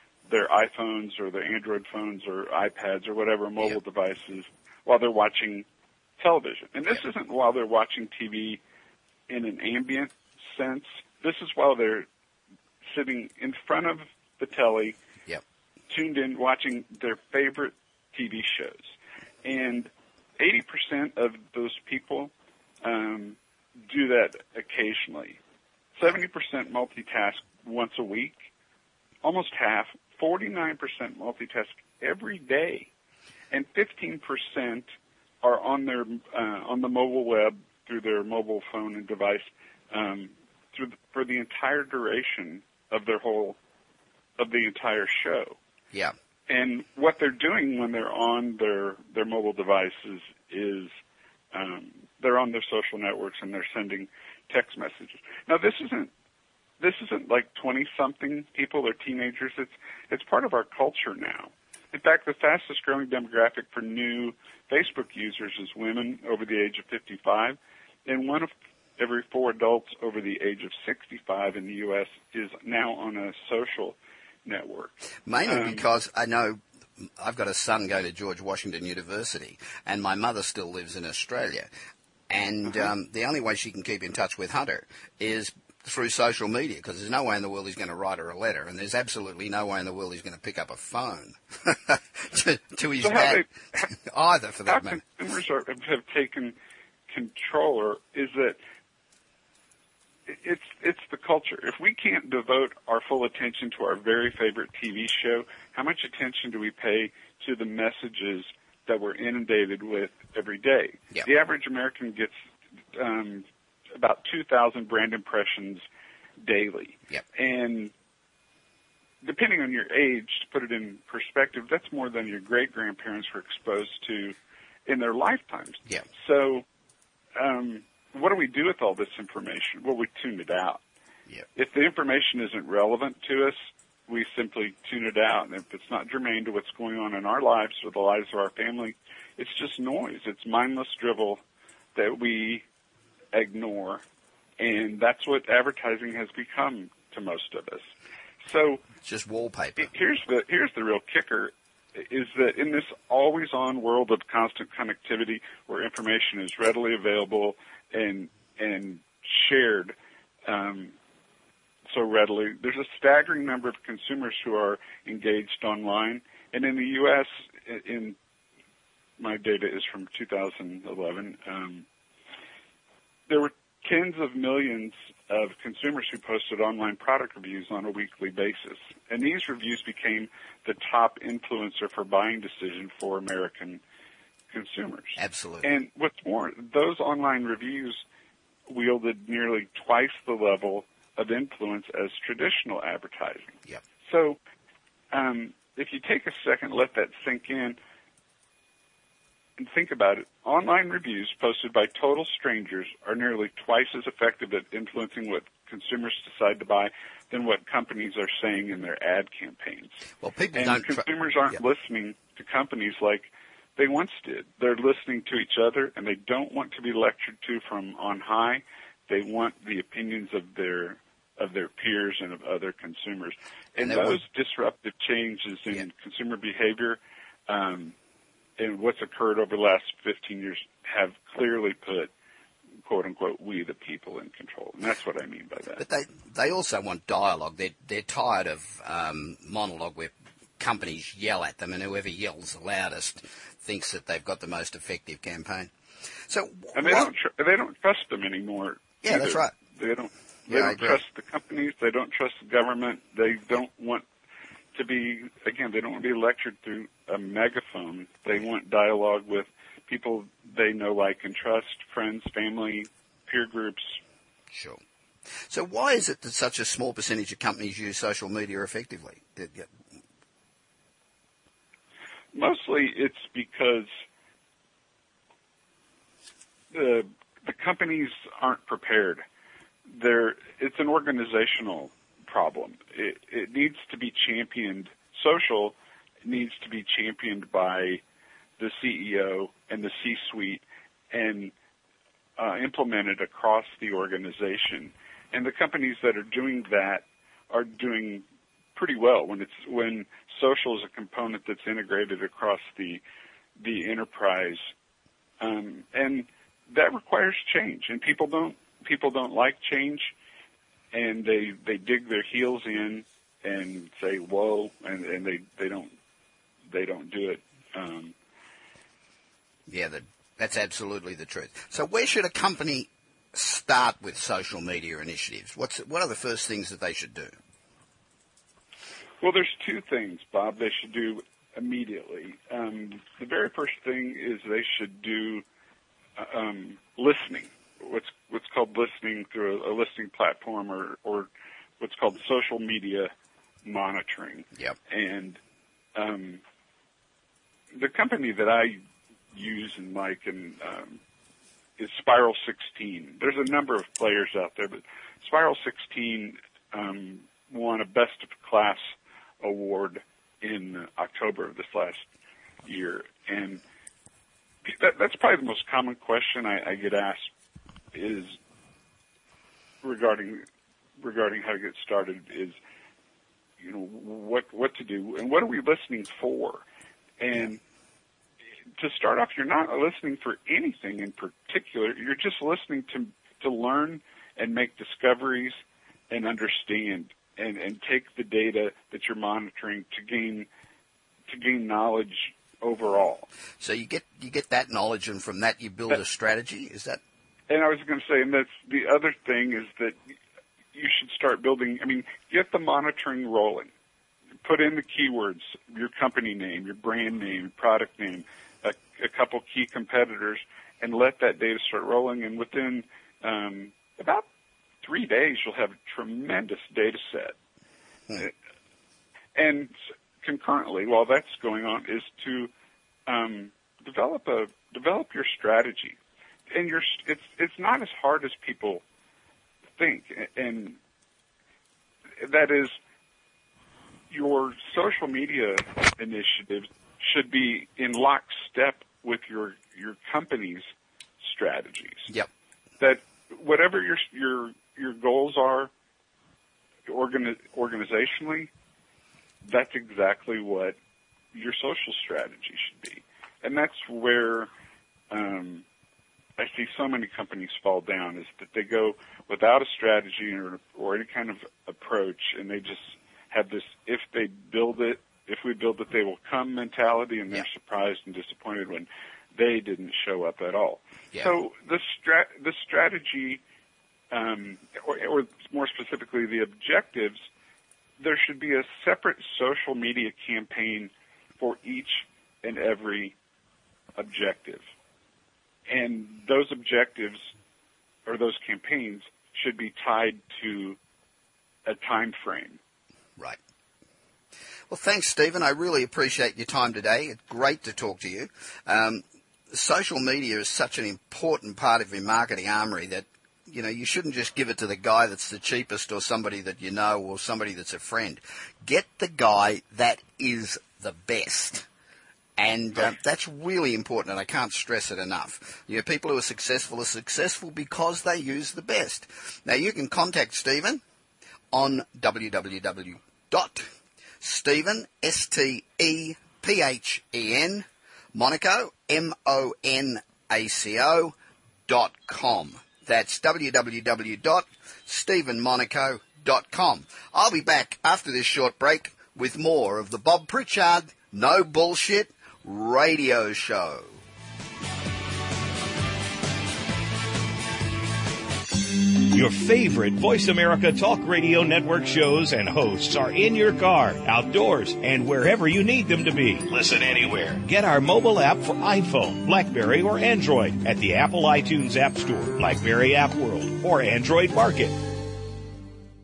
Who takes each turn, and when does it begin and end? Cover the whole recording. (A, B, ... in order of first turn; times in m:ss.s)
0:00.3-0:05.7 A
0:06.2-0:08.6 A
0:09.3-0:12.1 A
0:12.8-0:15.0 A
0:15.9-0:18.9 A
0:19.4-0:25.4 A
0:26.0-0:28.4 A
0:29.2-0:32.9 A
0:33.5-0:34.8 A
0:35.4-0:43.6 A
0:44.4-0:45.6 A
0:46.5-0:50.9 A
0:51.5-0:56.1 A
0:56.8-1:15.0 A
1:15.3-1:16.6 B
1:15.5-1:15.8 A
1:17.2-1:21.7 B
1:22.3-1:35.0 B
1:33.0-1:33.8 A
1:34.7-1:36.6 A
1:37.1-1:38.6 A
1:40.3-1:52.3 A
1:52.9-1:55.8 A
1:56.4-1:57.9 A
1:59.2-2:04.4 A
2:04.9-2:06.6 A
2:07.4-2:10.8 A
2:11.6-2:13.6 A
2:14.1-2:21.4 A
2:22.0-2:22.6 A
2:23.3-2:24.0 A
2:24.6-2:27.9 A
2:28.4-2:28.8 A
2:29.0-2:29.9 B
2:29.8-2:39.9 A
2:40.5-2:40.9 A
2:41.9-2:48.2 A
2:49.2-2:51.8 A
2:53.3-3:03.8 A
3:04.5-3:08.0 A
3:05.2-3:05.8 B
3:08.7-3:14.4 A
3:15.1-3:17.8 A
3:19.6-3:30.0 A
3:30.2-3:31.6 B
3:30.5-3:48.0 A
3:43.8-3:44.2 B
3:48.6-3:52.1 A
3:52.8-3:55.8 A
3:55.8-4:05.7 B
4:06.3-4:07.1 B
4:06.8-4:14.0 A
4:09.0-4:09.5 B
4:10.5-4:11.0 B
4:14.8-4:24.0 A
4:24.5-4:24.8 B
4:25.5-4:29.7 B
4:32.3-4:33.9 A
4:36.7-4:39.2 A
4:39.9-4:48.0 A
4:48.6-4:51.5 A
4:52.4-4:58.2 A
4:58.8-5:03.0 A
5:03.6-5:04.6 A
5:05.4-5:10.1 A
5:10.9-5:15.9 A
5:16.7-5:18.1 A
5:19.7-5:27.4 B
5:29.2-5:35.4 A
5:36.2-5:41.3 A
5:41.8-5:43.1 A
5:43.6-5:45.4 A
5:46.0-5:46.4 A
5:47.8-5:48.8 A
5:49.3-5:51.0 A
5:51.8-5:58.8 A
5:59.4-6:02.0 A
6:02.6-6:03.6 A
6:04.6-6:07.3 A
6:07.9-6:08.4 A
6:09.8-6:10.4 A
6:11.0-6:12.6 A
6:13.6-6:16.6 A
6:17.2-6:17.6 A
6:18.8-6:25.6 A
6:26.1-6:30.5 A
6:31.3-6:33.3 A
6:33.6-6:37.0 B
6:37.5-6:40.0 A
6:40.7-6:43.7 A
6:44.4-6:54.2 A
6:54.8-6:57.4 A
6:59.4-7:02.5 A
7:03.1-7:06.0 A
7:06.5-7:08.8 A
7:09.8-7:10.8 A
7:12.2-7:12.7 A
7:14.1-7:20.6 A
7:21.2-7:22.1 A
7:22.8-7:25.7 A
7:26.9-7:28.5 A
7:29.4-7:30.8 A
7:31.3-7:34.5 A
7:35.1-7:35.6 A
7:36.4-7:53.4 A
7:54.1-7:57.2 A
7:58.0-8:03.2 A
8:04.0-8:04.6 A
8:05.7-8:07.2 A
8:08.1-8:10.8 A
8:11.7-8:12.6 A
8:14.7-8:31.7 B
8:32.4-8:40.8 B
8:41.5-8:43.7 B
8:44.2-8:51.1 B
8:51.7-9:03.9 B
9:09.1-9:24.8 C